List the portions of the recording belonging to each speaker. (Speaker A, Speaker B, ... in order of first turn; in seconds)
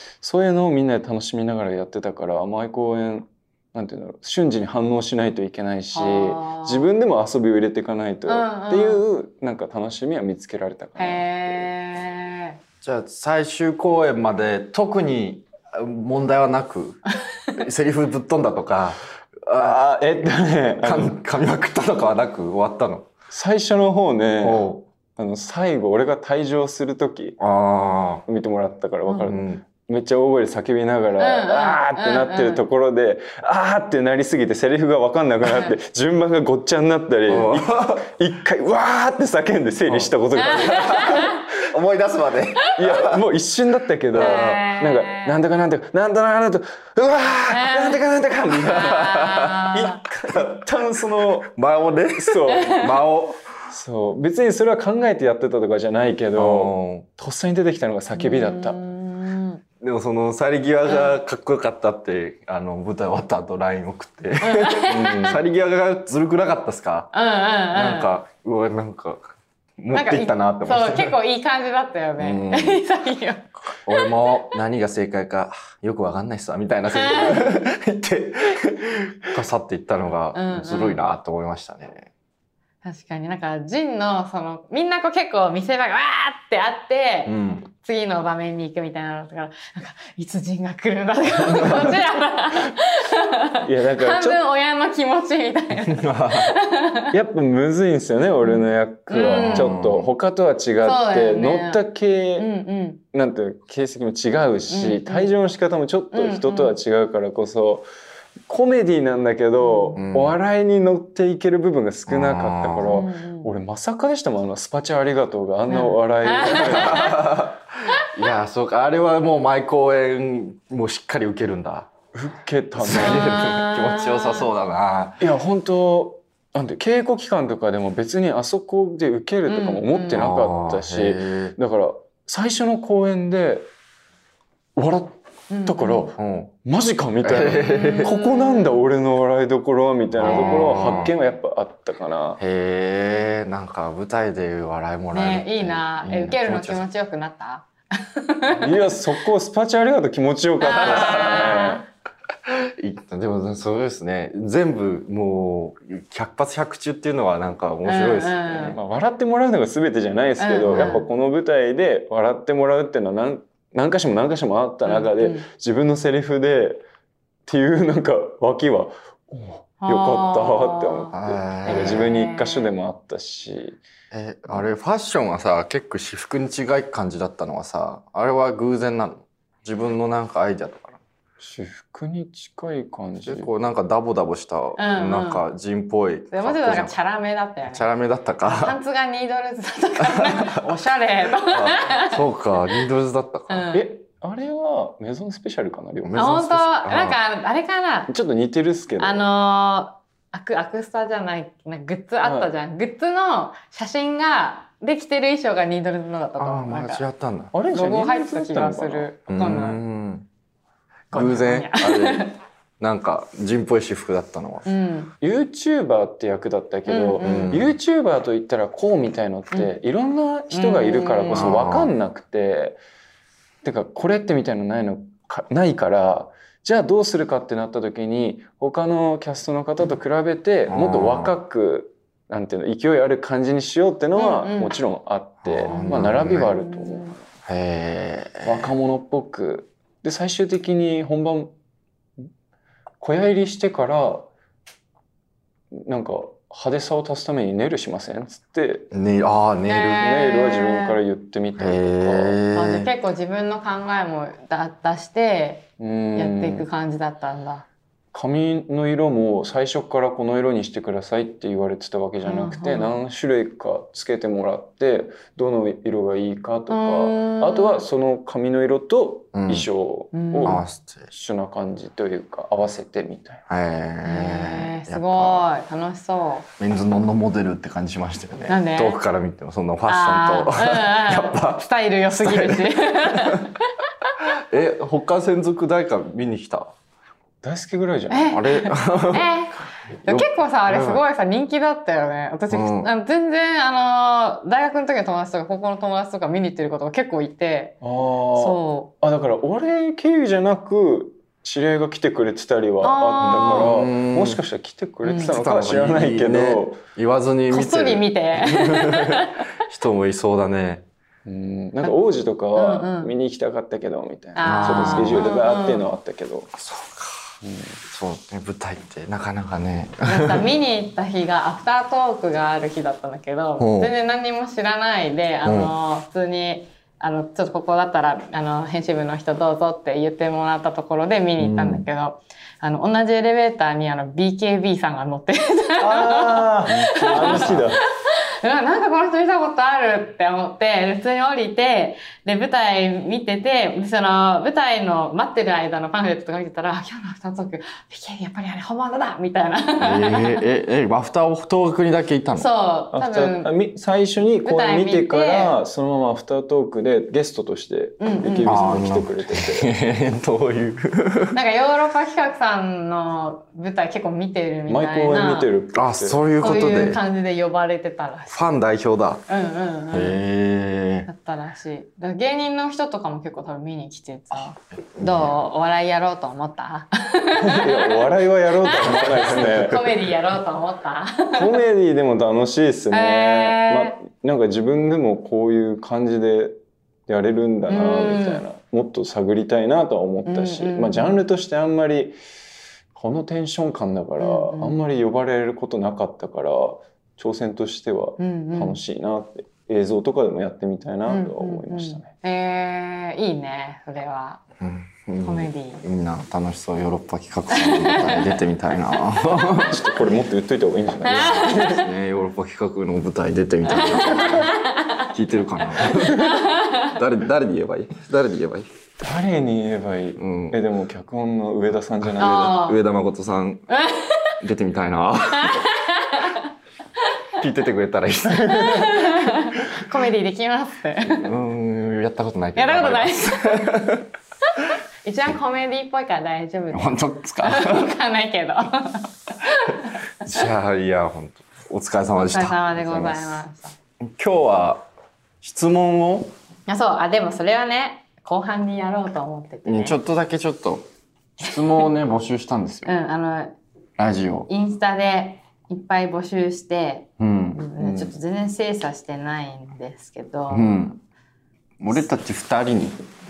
Speaker A: 0.2-11.7, 19.6-21.2, 23.3-27.4, 28.3-41.4, 42.8-48.9, 49.7-51.5, 52.2-52.8, 53.7-58.8, 93.6-94.4, 97.1-102.5, 103.1-107.9, 108.5-117.2, 122.1-123.3, 125.2-133.7, 134.8-142.4, 148.6-151.8, 158.6-166.8, 167.5-173.8, 181.4-183.5, 193.7-196.6, 198.1-199.3, 202.2-202.5, 207.5-209.1, 215.2-222.8, 223.6-237.2, 238.4-241.6, 243.0-244.3, 245.7-248.9, 250.0-252.4, 255.8-256.7, 258.1-273.4, 287.4-288.4, 297.8-306.8, 311.2-316.5, 317.4-317.8, 335.8-337.8, 352.9-359.7, 364.7-366.7, 377.4-379.9, 381.3-392.2, 392.9-402.1, 409.6-411.8, 419.0-422.6, 428.4-428.9
Speaker B: 5.9-6.9, 8.3-9.0, 11.0-12.6, 31.2-32.6, 35.5-35.8, 40.4-41.5, 44.2-45.4, 47.5-48.0, 48.6-50.0, 52.5-52.9, 58.1-59.6, 60.9-61.1, 64.4-65.4, 67.1-68.1, 69.9-74.2, 76.9-77.5, 80.3-81.0, 82.8-97.1, 98.4-99.8, 100.8-101.8, 102.4-103.0, 104.7-105.3, 106.1-106.8, 109.6-110.0, 112.9-113.5, 115.7-117.3, 123.0-124.5, 129.5-130.2, 135.5-136.1, 137.6-138.8, 140.2-140.9, 145.1-148.9, 150.6-151.8, 157.9-158.8, 160.4-161.0, 164.8-165.5, 169.8-172.7, 184.8-185.4, 186.3-187.8, 188.4-192.2, 193.5-193.9, 196.2-198.1, 199.0-207.0, 207.7-209.8, 211.1-212.4, 214.7-215.1, 216.9-217.6, 220.5-221.6, 234.2-234.8, 235.7-237.2, 249.7-251.0, 252.5-257.6, 262.2-263.0, 266.7-267.8, 270.1-270.6, 274.0-276.5, 278.5-279.0, 279.9-283.6, 288.1-297.8, 298.4-298.9, 302.8-303.8, 305.1-305.3, 307.5-309.5, 312.6-313.1, 314.4-315.9, 320.0-350.4, 352.4-353.5, 354.4-355.6, 358.0-358.8, 361.3-365.5, 366.4-368.6, 369.3-370.2, 371.1-378.1, 378.6-381.5, 382.9-384.0, 387.7-388.4, 390.3-391.2, 394.2-394.8, 398.2-398.8, 401.1-404.4, 405.2-405.8, 407.6-408.4, 411.1-411.9, 413.7-415.1, 415.8-416.9, 422.2-422.8, 423.7-424.4, 425.3-426.5, 428.4-431.3, 432.6-433.8, 434.5-440.3, 442.2-443.8, 446.7-450.0, 452.9-453.6, 454.5-460.7
Speaker C: 12.8-19.8, 20.8-23.1, 24.4-24.9, 27.4-28.2, 29.2-29.6, 37.3-38.1, 39.9-43.2, 44.1-44.7, 47.6-53.5, 56.4-57.1, 59.8-67.1, 67.7-71.2, 72.2-72.8, 73.7-82.1, 87.3-87.7, 91.5-92.0, 95.8-96.5, 99.2-100.1, 110.0-110.4, 112.1-113.0, 116.5-121.9, 122.8-125.2, 130.1-131.6, 136.2-136.5, 137.2-138.1, 140.2-141.1, 142.4-146.8, 150.8-151.7, 152.5-158.7, 160.6-161.0, 171.1-172.1, 174.1-181.0, 183.2-186.9, 187.6-188.8, 190.0-190.7, 191.4-193.7, 196.0-197.2, 206.4-207.5, 209.3-210.3, 211.1-212.3, 212.8-214.7, 217.2-217.7, 221.3-221.9, 230.7-231.3, 235.4-236.5, 237.4-238.7, 248.9-250.1, 251.6-252.9, 269.3-269.7, 270.4-271.1, 273.5-275.5, 276.6-283.5, 284.5-286.7, 288.3-289.3, 290.0-291.0, 292.5-292.9, 303.2-304.4, 305.2-310.9, 314.4-315.3, 316.6-317.4, 317.9-320.5, 323.6-323.9, 325.4-325.7, 331.4-331.9, 336.8-337.7, 349.8-352.5, 358.4-361.4, 365.7-367.0, 368.3-369.3, 369.9-371.1, 374.3-375.4, 378.8-379.8, 404.6-409.8, 411.4-418.7, 420.2-420.6, 422.0-423.7, 424.4-425.7, 427.4-429.1, 431.1-434.1, 436.7-438.0, 440.2-443.2, 444.1-444.9, 445.4-446.3, 449.7-450.9, 451.4-452.9, 454.0-454.5, 457.2-458.0, 460.5-461.0, 461.8-463.0